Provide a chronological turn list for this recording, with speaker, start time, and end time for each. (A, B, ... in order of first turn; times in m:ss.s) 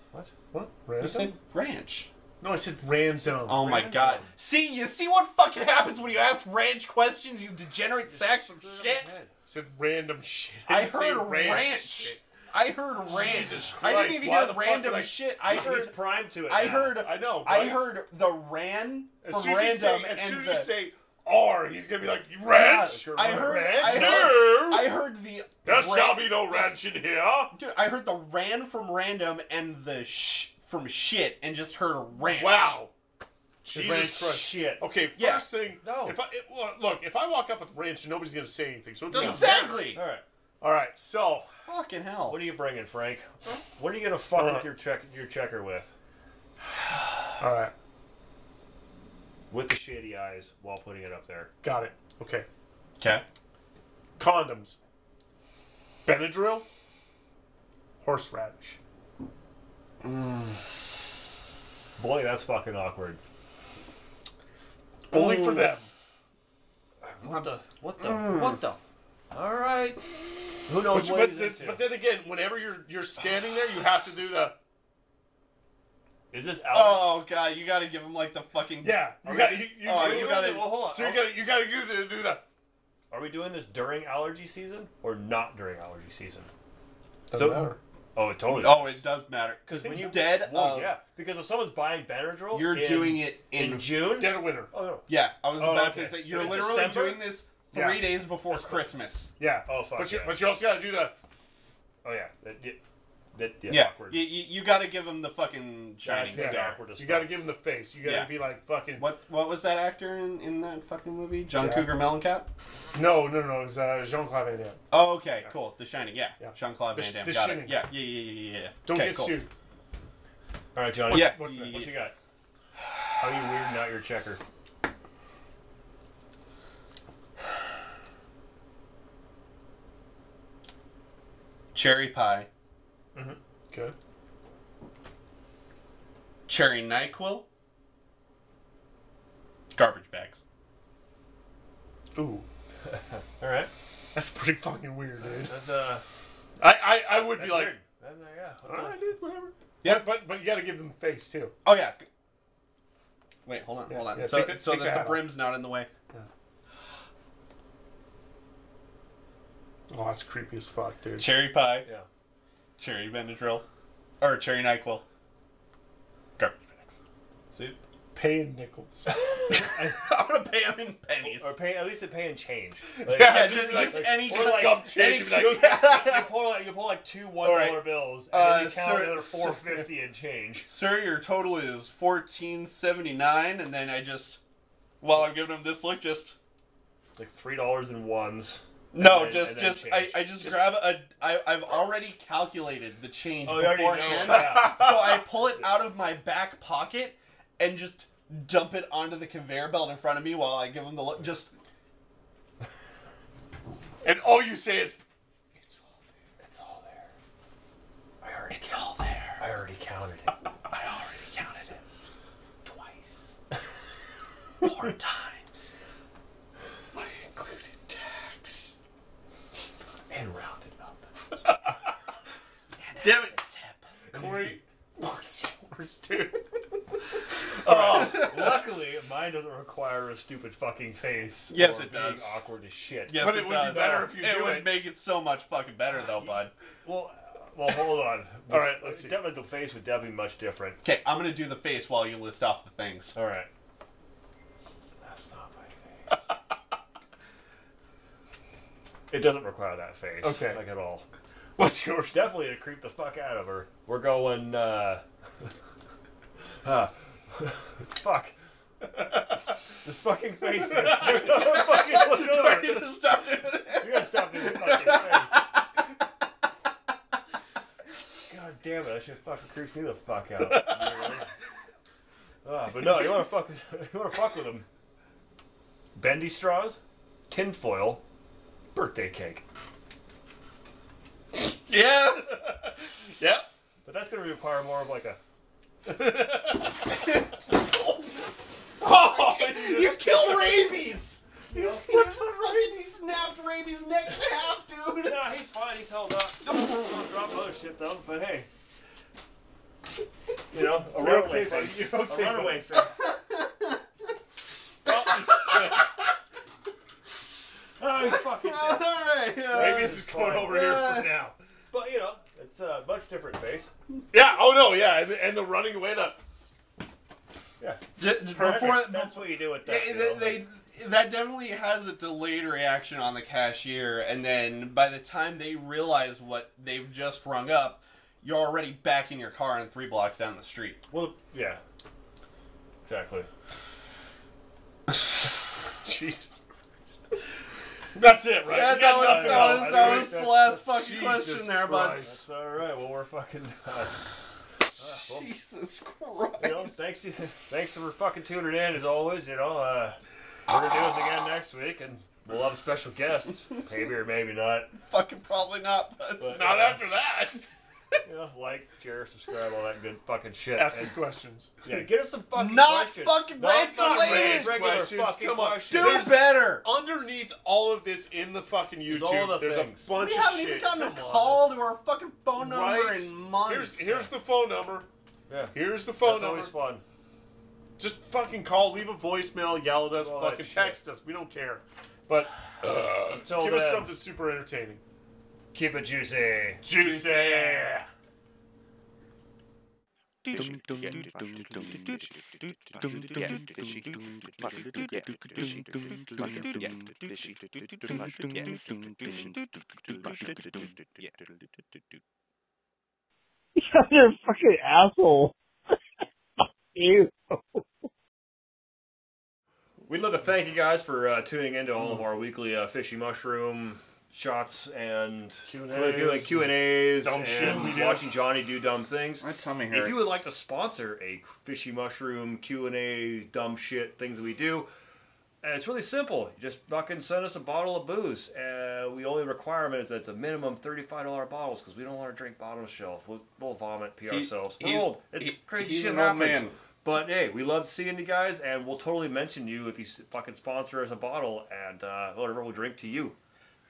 0:00.5-0:01.3 A
0:01.0-0:02.1 B
0:02.4-0:03.7 A
0:03.2-0:04.3 C
0:03.4-0:09.1 B
0:08.0-0:09.3 C
0:09.5-0:12.2 A
0:10.7-0:20.7 B
0:13.1-0:15.8 A
0:15.4-0:17.0 C
0:16.6-0:17.9 A
0:19.2-0:24.9 A
0:22.5-0:26.4 B
0:23.0-0:24.3 C
0:25.6-0:27.6 A
0:27.5-0:32.8 B
0:32.3-0:32.9 A
0:33.6-0:40.0 A
0:33.7-0:34.8 C
0:35.2-0:35.5 B
0:35.8-0:36.2 C
0:39.1-0:40.0 B
0:39.1-0:40.2 C
0:40.6-0:41.5 A
0:41.7-0:42.4 B
0:42.3-0:45.9 C
0:44.3-0:44.7 A
0:47.4-0:47.7 A
0:49.5-0:51.5 C
0:51.6-0:52.5 A
0:53.0-0:53.2 B
0:54.2-0:54.8 A
0:56.0-0:56.7 A
0:58.0-0:58.8 A
1:00.0-1:00.6 B
1:02.0-1:03.2 C
1:05.1-1:05.7 B
1:05.1-1:05.9 A
1:07.0-1:08.8 C
1:07.2-1:08.6 B
1:09.3-1:10.0 C
1:10.7-1:11.9 C
1:10.9-1:14.6 A
1:16.3-1:17.1 C
1:16.7-1:19.1 B
1:18.8-1:22.4 A
1:19.2-1:21.4 C
1:19.8-1:20.8 B
1:23.1-1:26.5 C
1:27.3-1:27.8 A
1:27.3-1:29.0 C
1:28.5-1:31.0 B
1:29.7-1:37.3 C
1:29.8-1:30.2 A
1:32.5-1:34.0 B
1:34.1-1:34.7 A
1:35.1-1:39.3 B
1:37.7-1:38.1 A
1:38.5-1:39.0 C
1:39.4-1:41.1 A
1:39.7-1:40.4 C
1:42.0-1:42.8 C
1:43.3-1:44.2 C
1:43.7-1:46.8 B
1:46.0-1:47.3 C
1:46.3-1:49.1 A
1:48.0-1:48.3 B
1:49.0-1:52.5 B
1:51.5-1:51.9 A
1:53.0-1:54.8 A
1:54.9-1:59.4 B
1:56.4-1:57.9 A
1:58.8-1:59.5 A
2:00.7-2:02.2 C
2:01.1-2:01.9 B
2:01.1-2:01.9 A
2:03.2-2:04.4 C
2:11.7-2:12.5 B
2:13.2-2:13.9 A
2:16.5-2:17.5 B
2:19.8-2:20.4 B
2:22.2-2:22.5 A
2:22.9-2:23.7 C
2:24.1-2:25.6 A
2:25.4-2:26.0 C
2:26.6-2:27.8 A
2:27.3-2:29.0 C
2:28.7-2:31.5 A
2:31.6-2:32.0 B
2:33.4-2:35.9 B
2:33.9-2:35.3 A
2:39.9-2:41.4 A
2:41.2-2:41.9 B
2:42.8-2:43.6 B
2:44.2-2:45.0 B
2:46.4-2:47.0 B
2:48.1-2:49.2 A
2:49.1-2:50.0 C
2:49.5-2:51.6 B
2:51.2-3:00.7 C
2:52.9-2:55.7 A
2:53.2-2:56.3 B
2:57.4-2:59.9 B
3:00.7-3:04.4 B
3:05.0-3:06.4 B
3:07.2-3:10.3 C
3:08.9-3:21.5 B
3:10.4-3:10.8 A
3:13.4-3:15.8 C
3:14.3-3:15.1 A
3:24.0-3:25.0 A
3:25.6-3:25.9 A
3:26.4-3:27.1 C
3:28.2-3:28.8 C
3:28.5-3:29.4 A
3:29.4-3:30.4 C
3:30.7-3:31.6 A
3:32.6-3:33.4 C
3:34.6-3:35.7 B
3:36.9-3:38.8 A
3:40.1-3:41.1 C
3:42.8-3:43.8 B
3:43.0-3:43.4 A
3:44.1-3:46.4 A
3:44.2-3:44.5 C
3:47.5-3:48.6 A
3:47.7-3:48.4 B
3:47.7-3:53.9 C
3:51.5-3:52.4 B
3:53.0-3:56.5 B
3:53.2-3:54.8 A
3:56.8-4:00.8 C
3:58.5-3:59.2 A
4:00.8-4:03.2 B
4:03.2-4:03.5 C
4:05.0-4:06.2 C
4:09.1-4:11.0 C
4:10.2-4:10.6 A
4:11.6-4:12.3 A
4:12.1-4:15.5 C
4:16.6-4:18.3 C
4:19.8-4:22.8 C
4:20.9-4:25.7 B
4:23.8-4:25.5 C
4:28.3-4:31.3 C
4:30.4-4:31.1 A
4:32.4-4:34.7 C
4:36.0-4:38.0 C
4:38.7-4:39.4 C
4:41.4-4:42.4 B
4:42.4-4:43.5 A
4:43.8-4:45.2 C
4:45.8-4:47.0 A
4:46.9-4:48.3 B
4:48.8-4:50.8 A
4:48.9-4:55.2 B
4:51.5-4:51.8 C
4:51.8-4:52.6 A
4:55.0-4:58.5 C
5:00.5-5:03.1 C
5:00.8-5:02.8 A
5:03.0-5:03.8 B
5:04.8-5:05.9 A
5:04.9-5:06.0 B
5:07.8-5:08.9 C
5:08.0-5:11.1 B
5:09.5-5:10.7 C
5:09.5-5:11.4 A
5:11.7-5:13.7 C
5:14.1-5:16.2 A
5:17.6-5:20.4 C
5:18.0-5:30.8 B
5:30.9-5:31.6 C
5:32.9-5:33.3 C
5:35.8-5:37.0 A
5:38.0-5:42.2 A
5:38.4-5:42.1 B
5:38.8-5:40.7 C
5:42.0-5:44.0 C
5:44.8-5:45.3 C
5:45.1-5:46.8 B
5:46.4-5:54.7 C
5:54.8-5:56.6 B
5:56.2-5:56.8 C
5:56.3-5:57.5 A
5:58.0-6:00.9 C
6:00.6-6:01.6 A
6:01.6-6:06.1 C
6:02.3-6:04.9 B
6:03.7-6:11.5 A
6:05.7-6:06.6 B
6:08.9-6:10.0 C
6:10.0-6:14.0 B
6:12.4-6:14.9 A
6:15.3-6:16.8 C
6:15.5-6:16.5 A
6:17.8-6:24.8 A
6:20.0-6:20.8 C
6:23.1-6:23.9 C
6:25.5-6:26.6 C
6:26.6-6:27.9 A
6:26.7-6:27.7 B
6:30.3-6:41.0 D
6:43.7-6:45.3 E
6:46.8-6:47.3 E
6:49.9-7:04.7 C
6:55.5-6:58.1 A
6:59.2-7:00.2 B
7:05.4-7:23.2 C
7:14.1-7:16.6 B